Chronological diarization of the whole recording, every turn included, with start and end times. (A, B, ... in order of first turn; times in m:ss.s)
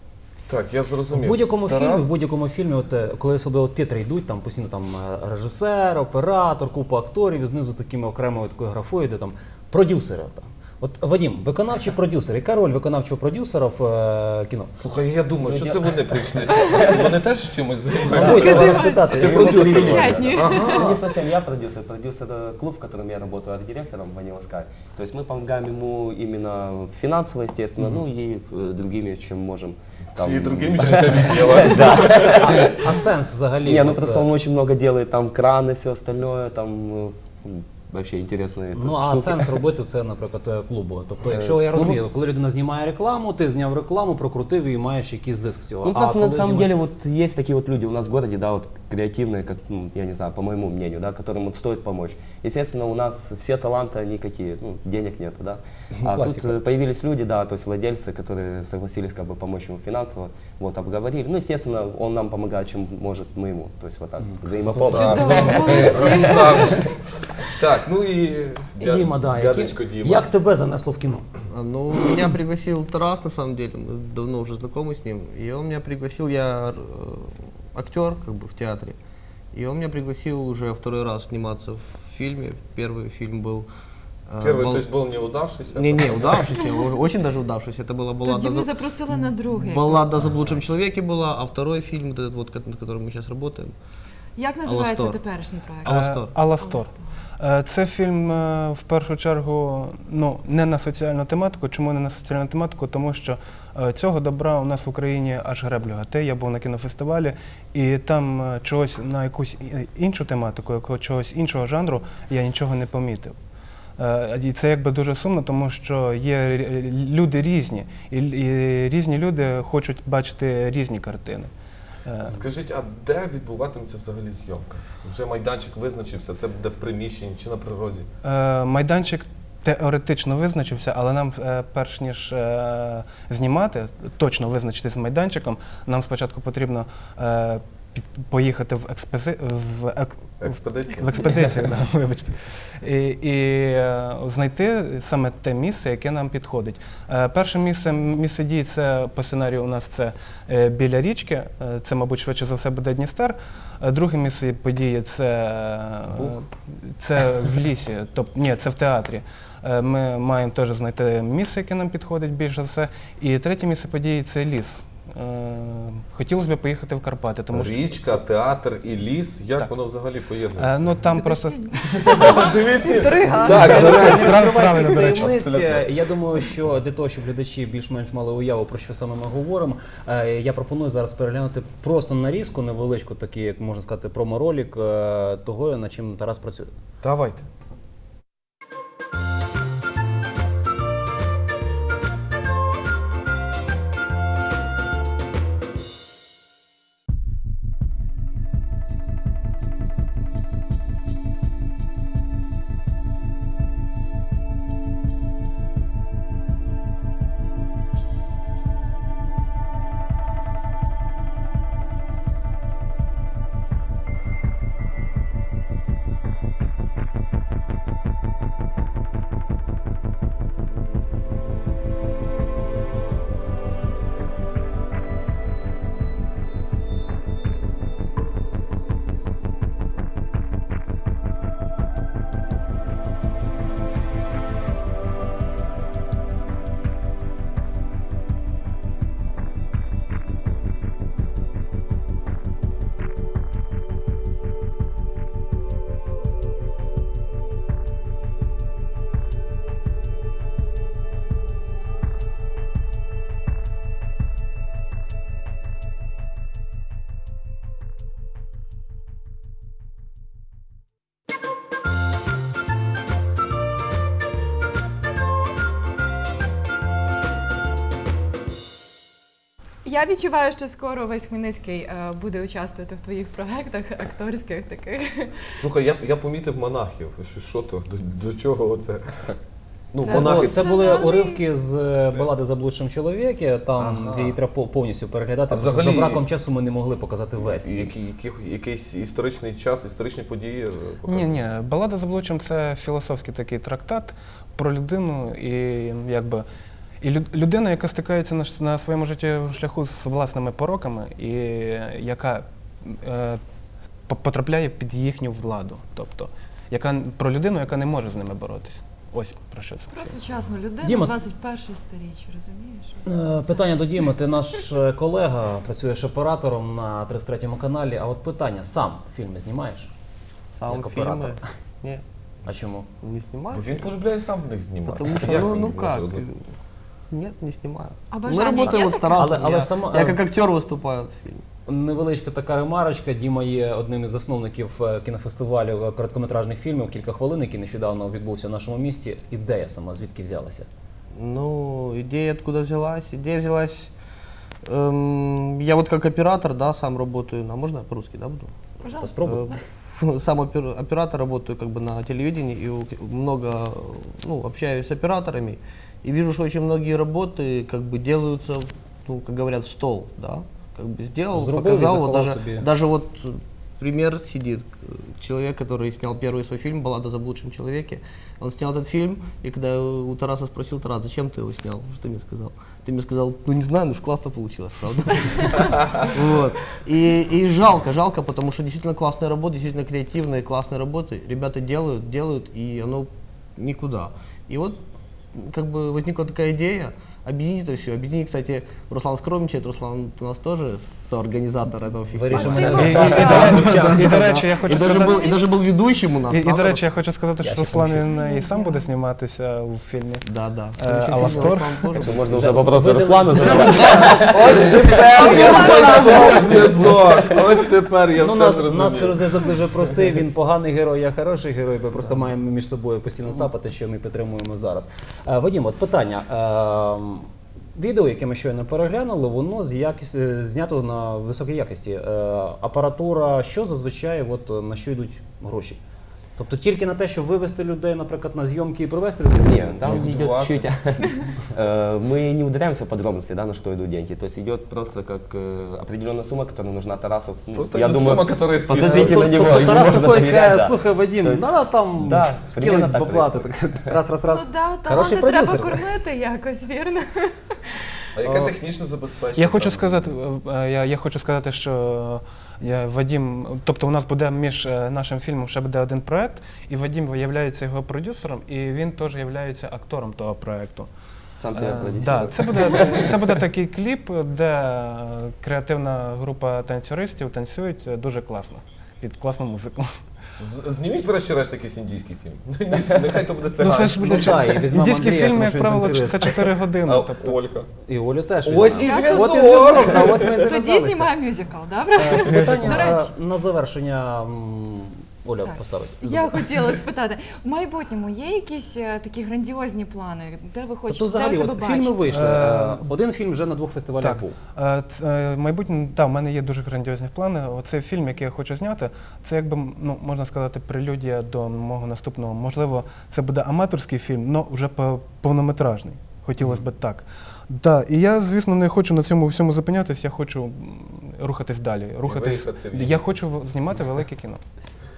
0:00.5-0:02.1 A
0:01.1-0:14.7 B
0:14.8-0:21.0 A
0:15.4-0:17.1 C
0:18.1-0:21.0 D
0:18.1-0:20.2 B
0:19.1-0:33.0 C
0:30.2-0:32.6 A
0:32.0-0:34.3 B
0:33.6-0:39.6 C
0:38.7-0:46.8 B
0:41.3-0:42.0 C
0:45.8-1:05.8 C
0:56.0-0:56.6 B
1:04.6-1:10.3 A
1:04.6-1:05.8 B
1:05.0-1:06.9 D
1:08.8-1:11.2 B
1:11.5-1:19.0 E
1:19.5-1:23.7 E
1:24.3-1:24.9 E
1:24.4-1:26.6 A
1:25.7-1:28.8 E
1:28.2-1:30.1 D
1:29.6-1:33.7 E
1:34.4-1:37.0 D
1:34.6-1:35.2 E
1:35.8-1:36.5 E
1:35.8-1:53.4 F
1:54.0-2:01.5 F
2:02.0-2:02.4 F
2:02.3-2:08.1 A
2:08.2-2:48.2 F
2:20.4-2:21.4 A
2:47.5-2:51.0 A
2:50.6-2:52.4 F
2:51.2-2:54.3 D
2:51.9-2:55.9 A
2:53.4-3:06.7 B
2:54.1-2:55.3 F
3:07.0-3:07.5 A
4:29.8-4:35.6 D
4:35.6-4:39.4 A
4:39.9-4:40.7 A
4:40.0-4:41.4 D
4:40.0-4:47.9 B
4:43.8-4:44.4 A
4:45.5-4:46.2 A
4:47.4-4:51.3 A
4:51.1-4:56.4 F
4:57.0-5:03.4 F
5:04.1-5:10.2 F
5:09.9-5:13.7 D
5:10.8-5:11.1 B
5:13.0-5:19.9 B
5:20.5-5:22.0 E
5:20.7-5:21.4 B
5:22.5-5:22.9 B
5:23.0-5:24.0 E
5:23.5-5:26.2 A
5:24.8-5:26.5 E
5:27.1-5:31.4 E
5:28.1-5:29.3 D
5:28.6-5:30.2 B
5:31.7-5:40.7 B
5:41.2-5:43.9 E
5:44.6-5:48.5 E
5:48.8-5:49.6 D
5:48.9-5:49.5 B
5:49.2-6:24.8 E
6:01.3-6:02.7 B
6:25.4-6:36.8 E
6:32.1-6:33.8 B
6:32.3-6:33.6 D
6:32.6-6:35.3 F
6:34.6-6:35.5 D
6:36.2-6:40.3 F
6:37.4-6:38.2 B
6:38.0-6:39.0 D
6:40.2-6:42.7 E
6:40.8-6:42.1 F
6:42.0-6:45.0 C
6:42.1-6:45.0 B
6:43.4-6:47.0 E
6:45.1-6:49.6 A
6:45.3-6:46.5 D
6:45.7-6:46.0 B
6:48.2-7:05.8 B
7:06.4-7:10.1 B
7:09.4-7:24.0 C
7:09.8-7:10.7 A
7:17.5-7:19.8 A
7:18.8-7:25.9 B
7:24.2-7:28.0 D
7:28.2-7:30.2 A
7:28.2-7:28.6 B
7:29.4-7:40.9 F
7:41.4-7:43.3 C
7:41.6-7:49.9 F
7:50.4-7:54.6 A
7:53.6-7:57.4 F
7:54.0-7:56.5 B
7:56.8-7:57.7 A
7:57.8-8:01.1 B
7:58.4-8:00.6 A
7:58.8-7:59.4 D
8:00.2-8:03.2 D
8:02.0-8:06.5 B
8:02.2-8:03.0 F
8:05.4-8:12.1 D
8:10.9-8:14.3 B
8:12.1-8:12.9 F
8:14.0-8:34.4 F
8:32.1-8:33.0 A